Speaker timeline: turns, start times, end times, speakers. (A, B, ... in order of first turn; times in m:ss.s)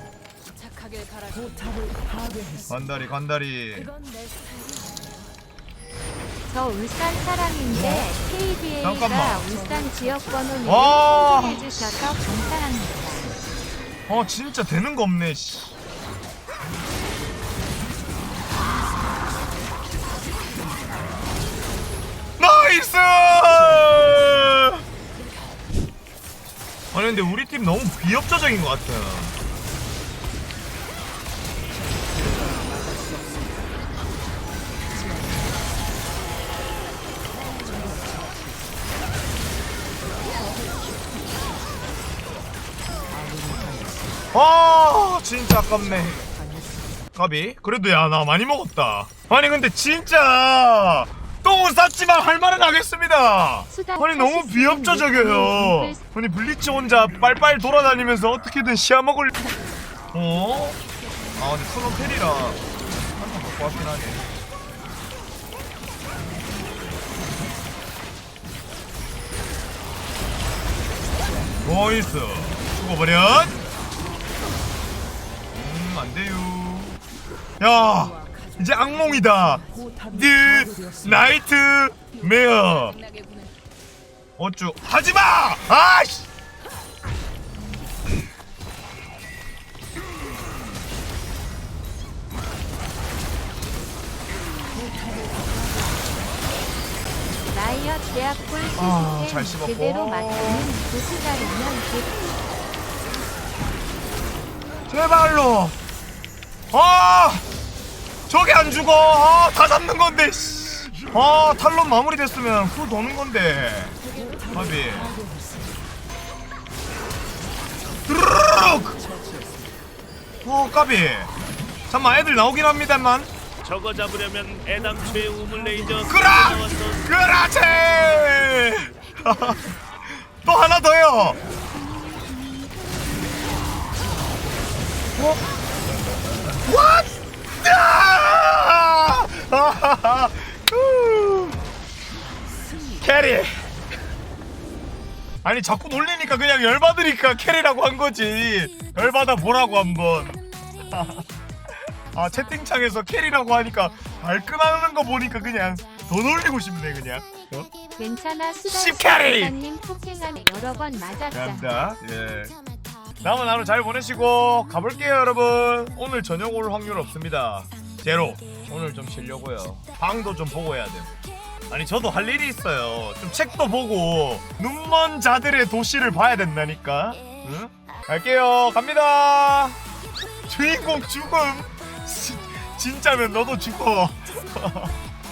0:00.5-0:03.0 A
0:02.7-0:03.9 B
0:03.7-0:05.4 A
0:06.5-0:13.3 C
0:07.7-0:08.1 B
0:08.8-0:09.4 B
0:10.6-0:11.8 B
0:14.1-0:15.8 B
0:22.4-0:24.8 B
0:26.9-0:29.4 B
0:44.3-0:46.2 B
0:47.1-0:59.3 B
0:53.7-0:56.0 C
1:00.1-1:00.8 B
1:01.4-1:04.2 B
1:11.6-1:13.6 B
1:15.5-1:17.0 B
1:17.6-1:23.0 B
1:17.6-1:20.3 A
1:22.1-1:23.5 A
1:24.4-1:26.3 B
1:37.5-1:42.1 C
1:38.8-1:40.7 B
1:44.9-1:45.8 B
1:46.7-1:47.4 B
1:48.3-1:55.2 B
1:54.1-1:54.5 A
1:58.1-1:59.0 B
2:00.4-2:01.3 B
2:01.9-2:03.3 B
2:03.6-2:07.2 D
2:06.0-2:11.4 B
2:15.2-2:15.4 B
2:16.6-2:21.6 B
2:23.0-2:23.7 B
2:25.4-2:31.2 B
2:32.1-2:37.7 B
2:38.0-2:41.7 C
2:38.6-2:39.5 B
2:41.3-2:42.5 B
2:43.2-2:51.1 B
2:51.7-2:59.8 B
3:00.5-3:05.0 B